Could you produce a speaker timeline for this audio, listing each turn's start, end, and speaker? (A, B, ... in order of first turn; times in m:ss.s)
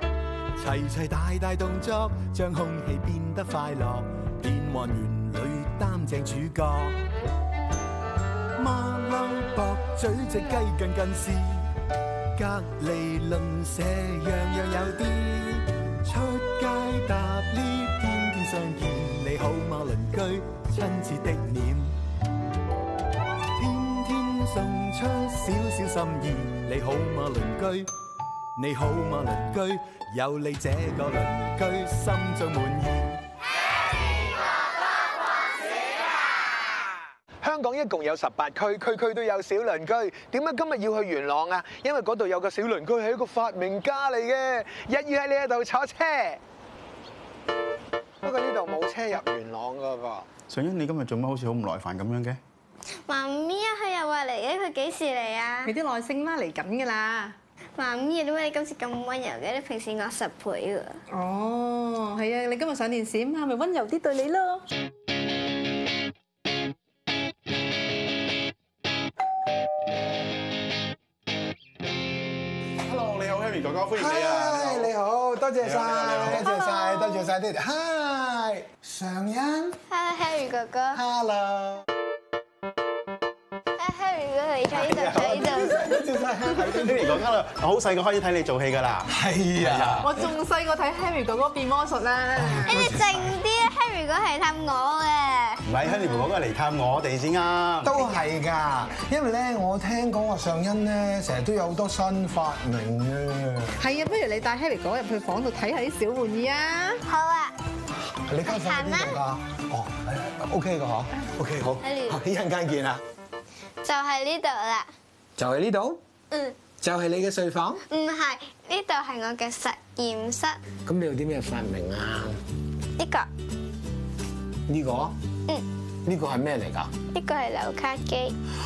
0:00.6-0:06.9 A
0:08.6-0:11.6 A
0:12.4-0:21.9 A
0:23.6-0:27.9 A
0:28.6-0:33.2 A
0:37.4-0:46.4 B
0:48.2-0:50.3 B
0:50.5-0:52.4 C
0:53.1-0:55.7 D
0:55.6-0:57.4 E
0:57.8-1:01.0 D
1:01.1-1:04.6 E
1:12.8-1:14.9 C
1:13.9-1:19.8 B
1:15.6-1:16.5 C
1:16.4-1:17.3 D
1:19.9-1:21.0 D
1:20.9-1:21.8 B
1:23.8-1:26.0 D
1:24.7-1:27.2 B
1:24.9-1:25.3 C
1:26.7-1:30.1 C
1:29.1-1:30.1 B
1:30.0-1:32.7 E
1:32.4-1:33.4 B
1:32.6-1:35.6 D
1:35.6-1:38.1 C
1:35.8-1:36.3 E
1:37.8-1:43.7 B
1:43.8-1:47.0 E
1:47.0-1:47.5 D
1:48.3-1:53.0 B
1:48.4-1:49.2 D
1:51.8-1:52.2 D
1:53.8-1:54.9 D
1:55.4-1:56.0 B
1:56.3-1:56.6 D
1:56.8-1:57.8 B
1:57.9-2:00.6 D
2:00.8-2:02.4 B
2:03.0-2:03.3 D
2:04.7-2:05.1 B
2:06.0-2:06.9 B
2:07.1-2:08.3 D